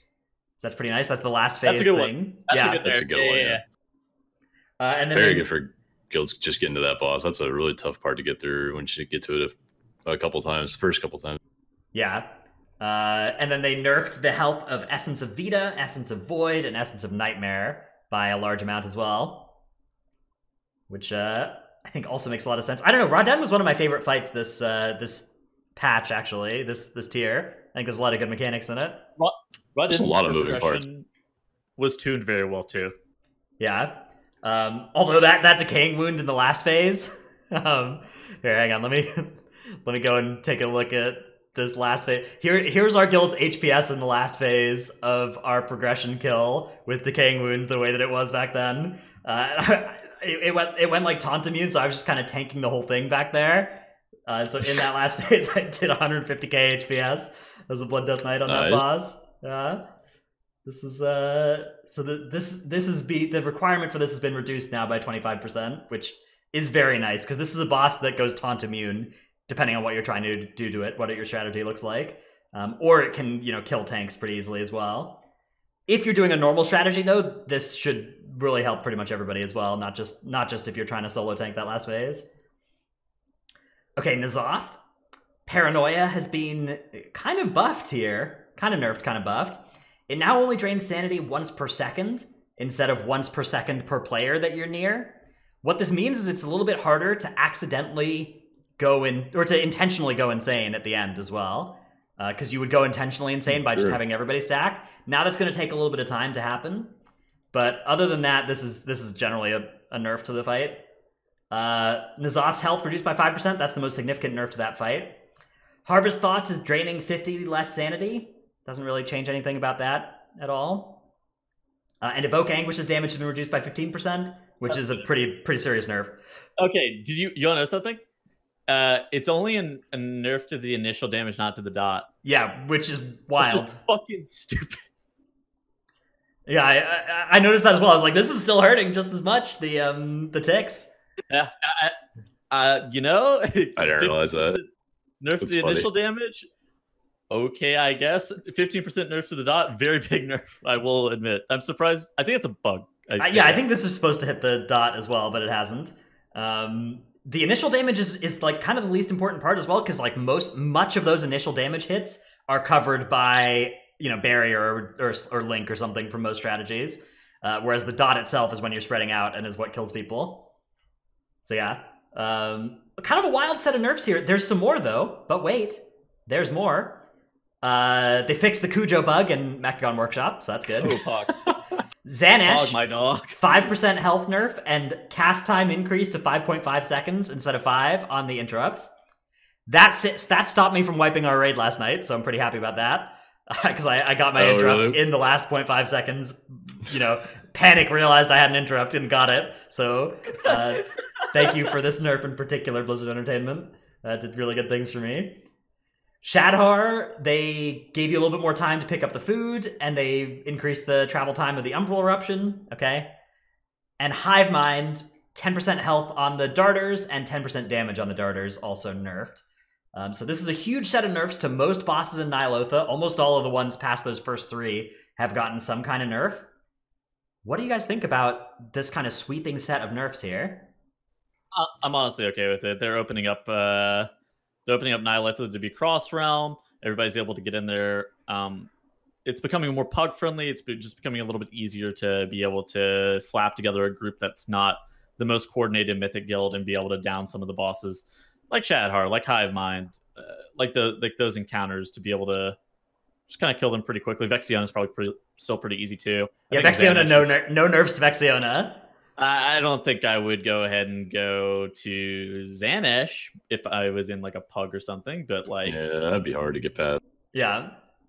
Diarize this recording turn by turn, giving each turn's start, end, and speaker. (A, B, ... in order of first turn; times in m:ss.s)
0:00.6-0:02.8 A
0:01.6-0:03.6 B
0:02.8-0:03.6 C
0:04.8-0:05.5 A
0:05.1-0:11.4 C
0:11.9-0:19.5 A
0:20.9-0:29.0 A
0:29.2-0:31.1 B
0:29.9-0:30.8 C
0:31.8-0:32.9 B
0:33.6-0:59.8 A
0:58.5-0:58.8 C
1:00.6-1:15.2 A
1:15.9-1:22.2 A
1:24.0-1:24.8 A
1:25.4-1:46.9 A
1:43.5-1:44.0 C
1:47.5-1:50.8 A
1:51.5-1:55.2 A
1:55.8-2:01.0 A
2:02.0-2:06.2 A
2:04.7-2:05.0 B
2:06.6-2:08.0 B
2:08.7-2:12.1 B
2:12.2-2:13.8 A
2:13.4-2:14.8 B
2:16.5-2:20.9 A
2:21.3-2:22.0 B
2:22.5-2:24.7 B
2:23.8-2:24.6 C
2:25.2-2:26.5 B
2:25.4-2:25.9 C
2:27.3-2:33.6 B
2:33.2-2:50.5 A
2:51.4-2:57.0 A
2:57.6-3:01.0 A
3:00.8-3:01.6 B
3:02.0-3:02.8 A
3:02.4-3:03.4 B
3:03.3-3:08.9 A
3:09.7-3:25.4 A
3:14.3-3:15.0 C
3:26.2-3:33.1 A
3:34.0-3:46.5 A
3:47.4-3:50.7 A
3:51.5-3:54.1 B
3:54.6-3:58.7 B
3:59.2-4:12.6 B
4:13.3-4:17.3 B
4:16.5-4:18.8 A
4:19.2-4:25.8 B
4:25.6-4:27.0 C
4:27.3-4:27.7 A